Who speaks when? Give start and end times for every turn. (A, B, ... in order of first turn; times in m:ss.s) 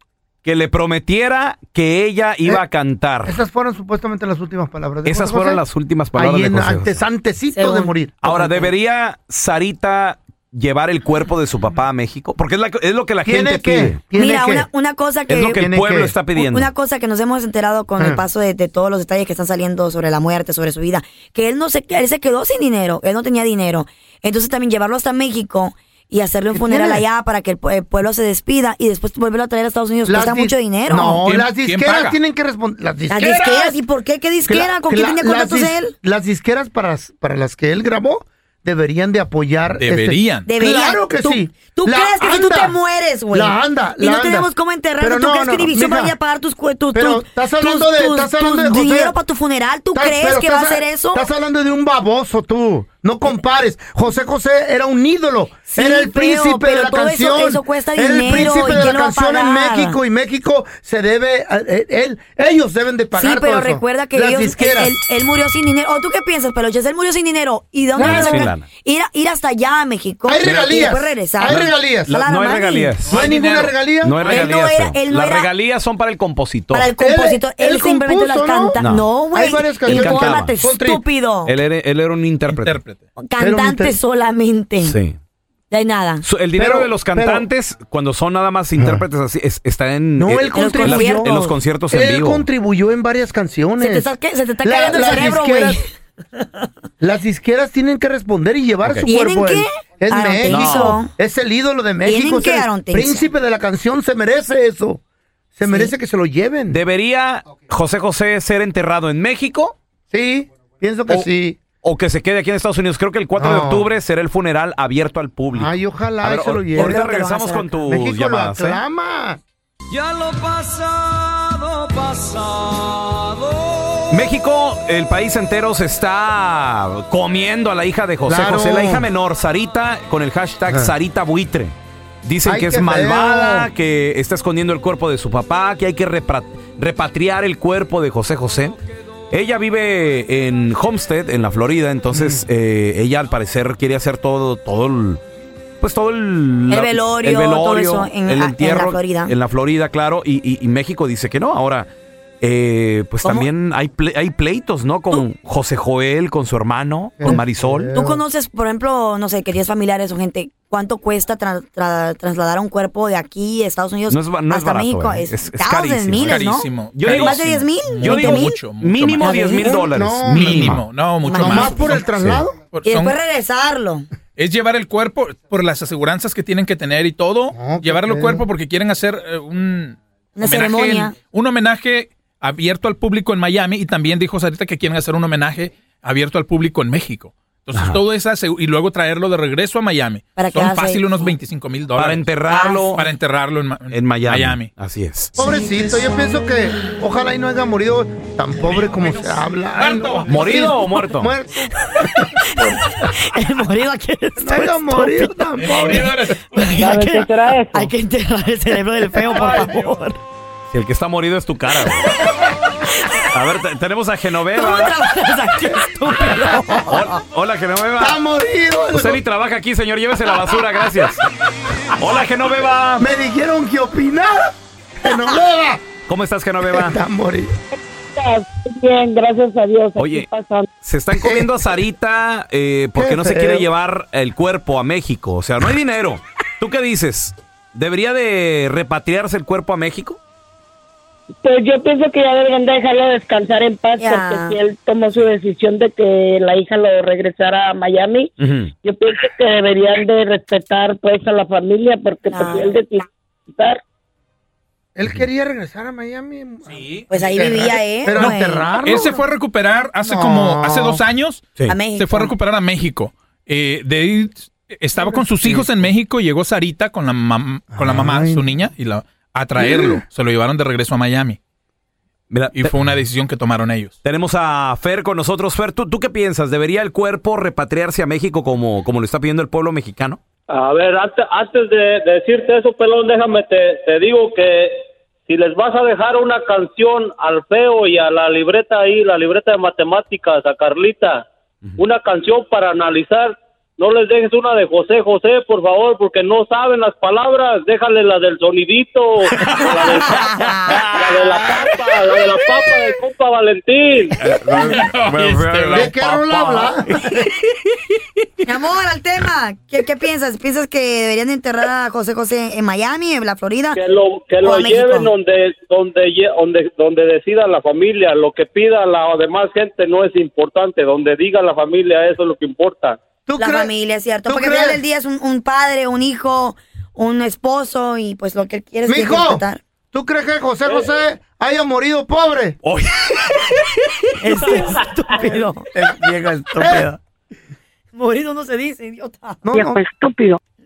0:00.4-0:03.4 A
0:03.2-0:05.6 B
0:05.0-0:07.0 A
0:06.2-0:08.1 B
0:07.5-0:08.7 C
0:08.2-0:14.0 A
0:13.2-0:14.7 B
0:14.1-0:15.6 C
0:15.3-0:16.7 A
0:15.6-0:16.1 B
0:16.3-0:31.2 C
0:26.5-0:27.0 B
0:30.0-0:33.8 B
0:31.2-0:32.2 D
0:33.1-0:35.9 C
0:34.5-0:42.8 B
0:39.7-0:40.5 D
0:40.4-0:51.3 C
0:43.3-0:46.2 B
0:46.9-0:49.2 B
0:49.9-1:05.0 B
0:55.7-1:00.0 C
1:03.2-1:12.9 C
1:07.9-1:08.5 B
1:08.0-1:08.6 A
1:10.3-1:12.1 B
1:10.4-1:10.7 A
1:11.4-1:13.3 A
1:13.1-1:13.8 D
1:13.1-1:14.3 B
1:14.0-1:16.9 A
1:14.2-1:15.5 C
1:16.7-1:21.5 C
1:17.0-1:18.8 B
1:18.8-1:19.1 A
1:19.3-1:21.0 B
1:19.7-1:20.6 A
1:21.4-1:22.8 A
1:22.5-1:23.0 D
1:23.2-1:25.0 C
1:23.4-1:24.0 B
1:24.8-1:25.2 A
1:25.7-1:26.2 C
1:26.2-1:32.4 A
1:26.6-1:27.4 B
1:28.8-1:29.0 B
1:30.2-1:31.4 B
1:30.5-1:31.6 C
1:31.9-1:34.1 B
1:33.8-1:35.8 C
1:34.6-1:35.8 B
1:37.0-1:45.0 B
1:39.0-1:41.1 C
1:40.4-1:41.0 A
1:42.0-1:43.3 C
1:45.6-1:46.8 B
1:45.6-1:45.9 C
1:46.7-1:49.7 A
1:50.1-1:51.6 B
1:51.8-1:58.8 A
1:53.4-1:53.9 B
1:55.5-1:57.0 B
1:56.7-1:57.8 C
1:57.8-1:59.4 B
2:04.1-2:18.7 A
2:08.3-2:09.1 B
2:12.4-2:13.7 B
2:19.3-2:25.2 A
2:22.1-2:22.4 B
2:25.8-2:31.9 A
2:26.7-2:29.3 C
2:32.4-2:37.9 A
2:33.2-2:33.5 C
2:37.2-2:38.2 B
2:37.9-2:48.6 C
2:44.1-2:46.4 A
2:46.2-2:52.1 D
2:46.9-2:47.4 A
2:48.0-2:50.8 A
2:49.2-2:49.8 C
2:49.6-2:52.6 B
2:51.3-2:51.7 C
2:52.1-2:52.4 A
2:52.7-2:53.2 D
2:52.8-2:54.1 C
2:54.4-3:12.3 D
2:57.5-2:58.4 B
3:00.4-3:01.1 C
3:07.7-3:08.0 A
3:10.4-3:11.3 C
3:12.0-3:13.0 A
3:12.5-3:13.0 C
3:12.9-3:14.7 D
3:13.9-3:15.3 A
3:15.3-3:22.0 B
3:19.0-3:20.7 D
3:20.2-3:21.3 A
3:22.0-3:30.2 C
3:24.4-3:26.3 B
3:25.6-3:26.7 D
3:26.7-3:27.9 E
3:29.3-3:30.0 D
3:30.7-3:32.2 A
3:32.9-3:33.2 C
3:33.3-3:35.0 A
3:34.5-3:37.1 C
3:36.9-3:38.2 A
3:38.0-3:39.2 B
3:38.9-3:41.2 A
3:42.0-3:43.0 A
3:43.0-3:44.5 B
3:45.0-3:45.8 B
3:46.1-3:47.0 A
3:46.7-3:47.5 B
3:48.1-3:50.7 E
3:50.0-3:50.3 A
3:50.8-4:00.2 A
3:51.2-3:51.5 B
3:53.0-3:53.7 B
4:01.4-4:08.3 E
4:04.0-4:04.6 C
4:08.4-4:08.7 A
4:08.8-4:13.8 E
4:12.3-4:12.8 C
4:15.0-4:19.2 B
4:16.7-4:17.1 D
4:17.1-4:18.7 C
4:18.1-4:31.4 D
4:20.0-4:21.0 B
4:21.7-4:22.3 C
4:25.0-4:25.7 B
4:27.8-4:28.6 B
4:29.6-4:30.0 B
4:32.3-4:32.7 A
4:32.5-4:34.0 D
4:34.0-4:40.2 A
4:40.5-4:44.7 F
4:45.2-4:51.2 F
4:51.8-5:04.2 F
4:59.7-5:00.8 C
5:00.7-5:01.8 A
5:04.2-5:07.2 A
5:04.3-5:06.0 D
5:05.7-5:07.1 B
5:08.4-5:13.8 C
5:13.7-5:23.0 F
5:14.4-5:15.1 C
5:23.3-5:23.7 B
5:23.4-5:29.6 C
5:24.3-5:24.8 B
5:28.9-5:32.6 B
5:32.6-5:34.7 A
5:34.2-5:35.7 C
5:35.7-5:37.0 A
5:36.6-5:36.9 B
5:37.9-5:39.4 C
5:39.4-5:39.8 B
5:39.5-5:40.4 E